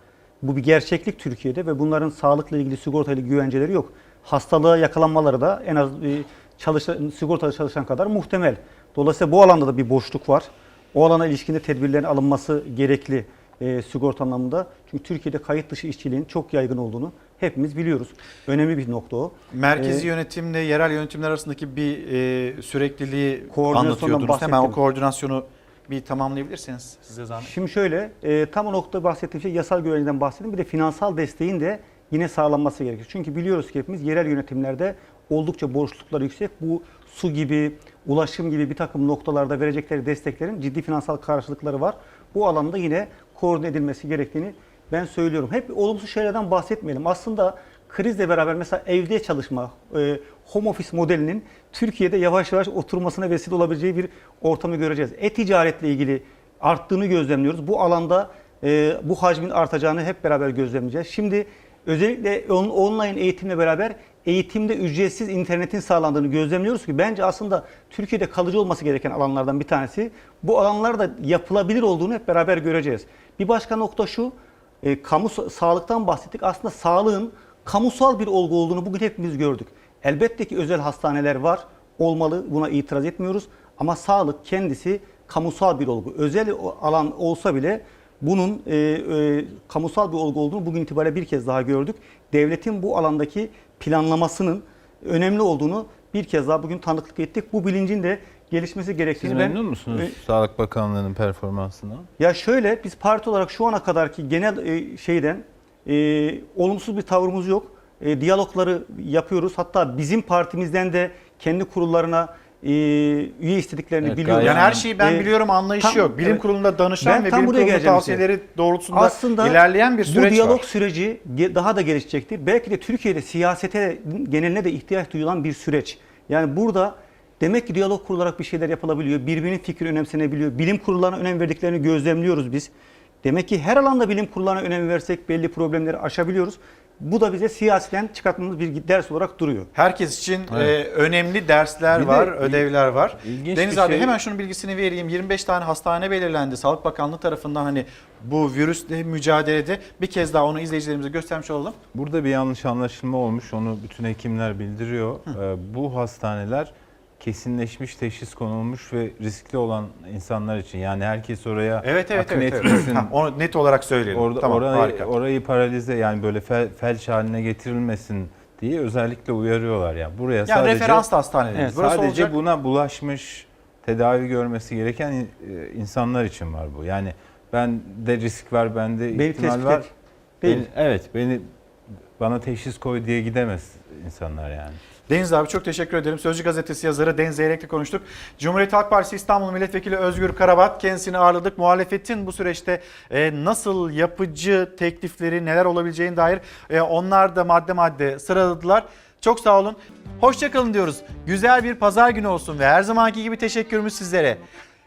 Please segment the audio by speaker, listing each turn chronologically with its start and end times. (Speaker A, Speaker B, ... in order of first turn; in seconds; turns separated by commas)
Speaker A: 0.4-20.1, Speaker B: 19.5-27.5, Speaker A: 23.5-24.8, Speaker A: 27.4-100.2, Speaker C: 99.2-102.1, Speaker A: 102.2-116.5, Speaker C: 114.0-114.8, Speaker B: 114.4-120.6, Speaker A: 117.0-118.3, Speaker A: 118.9-132.7, Speaker A: 133.2-139.7, Speaker B: 139.7-151.8, Speaker C: 141.9-144.2, Speaker C: 151.9-163.1, Speaker B: 161.8-165.1, Speaker C: 164.1-171.1, Speaker B: 170.5-172.3, Speaker C: 171.7-179.8, Speaker A: 179.1-179.9, Speaker C: 180.4-181.5, Speaker C: 182.2-184.8, Speaker B: 185.1-204.4